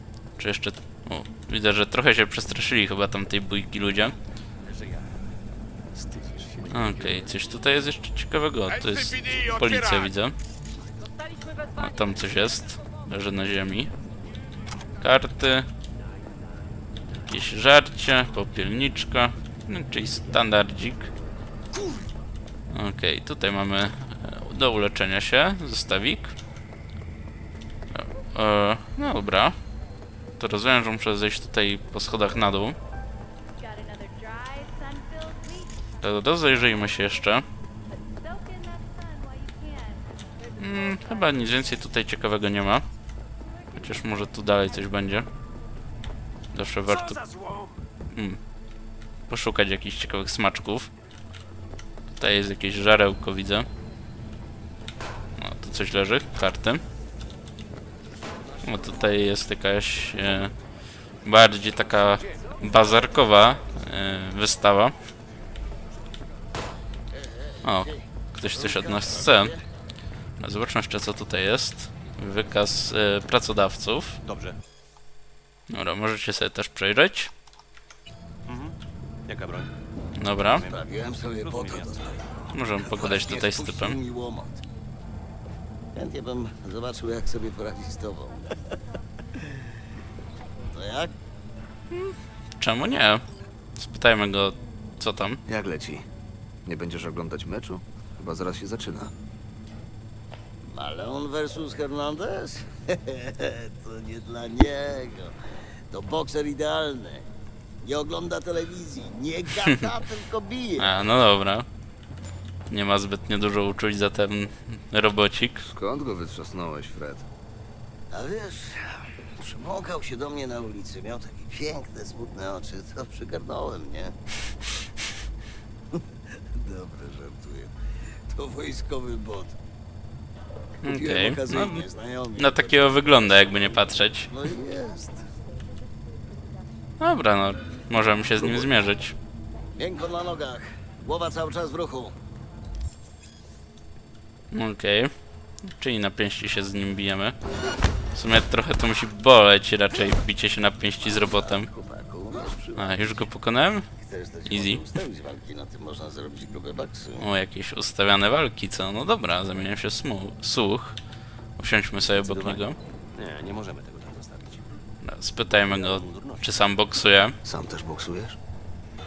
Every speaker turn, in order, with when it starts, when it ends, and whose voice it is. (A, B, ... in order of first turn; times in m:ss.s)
0:00.4-0:04.2 A
0:04.7-0:05.1 B
0:06.1-0:06.9 B
0:06.7-0:10.3 A
0:11.8-0:13.9 A
0:15.0-0:15.7 A
0:17.2-0:21.1 A
0:22.7-0:26.3 A
0:28.0-0:29.6 A
0:30.4-0:32.8 A
0:33.6-0:35.8 C
0:36.0-0:37.4 A
0:38.1-0:41.0 C
0:40.6-0:42.9 A
0:43.8-0:45.3 A
0:46.5-0:47.2 A
0:48.1-0:48.4 A
0:49.3-0:50.9 A
0:52.2-0:53.7 A
0:55.4-0:56.8 A
0:58.6-1:00.5 A
1:01.2-1:05.0 A
1:07.2-1:08.0 D
1:07.6-1:09.5 A
1:08.5-1:09.6 D
1:10.4-1:14.2 A
1:14.2-1:14.6 B
1:15.7-1:17.3 A
1:18.5-1:18.8 B
1:19.3-1:19.7 B
1:20.2-1:20.6 A
1:20.6-1:22.3 B
1:20.6-1:24.6 D
1:22.5-1:24.0 A
1:25.9-1:28.5 D
1:30.7-1:31.1 D
1:31.9-1:33.2 A
1:33.8-1:35.4 A
1:35.5-1:36.1 E
1:36.7-1:39.1 E
1:40.6-1:45.4 D
1:45.9-1:47.3 D
1:47.8-1:51.0 D
1:50.8-1:51.7 A
1:52.7-1:55.6 A
1:55.6-1:57.3 E
1:58.1-2:04.2 D
2:05.9-2:07.7 D
2:08.3-2:09.6 D
2:10.8-2:14.3 A
2:10.8-2:15.3 D
2:17.0-2:19.2 A
2:18.4-2:18.7 D
2:19.8-2:22.2 D
2:24.5-2:25.1 A
2:25.7-2:27.4 A
2:28.2-2:31.7 A
2:31.0-2:33.2 D
2:32.8-2:33.9 A
2:34.0-2:37.2 D
2:34.5-2:34.8 A
2:37.2-2:41.0 A
2:41.6-2:42.8 A
2:42.2-2:42.6 B
2:43.2-2:44.6 B
2:45.0-2:47.4 A
2:45.7-2:46.5 B
2:47.4-2:48.4 E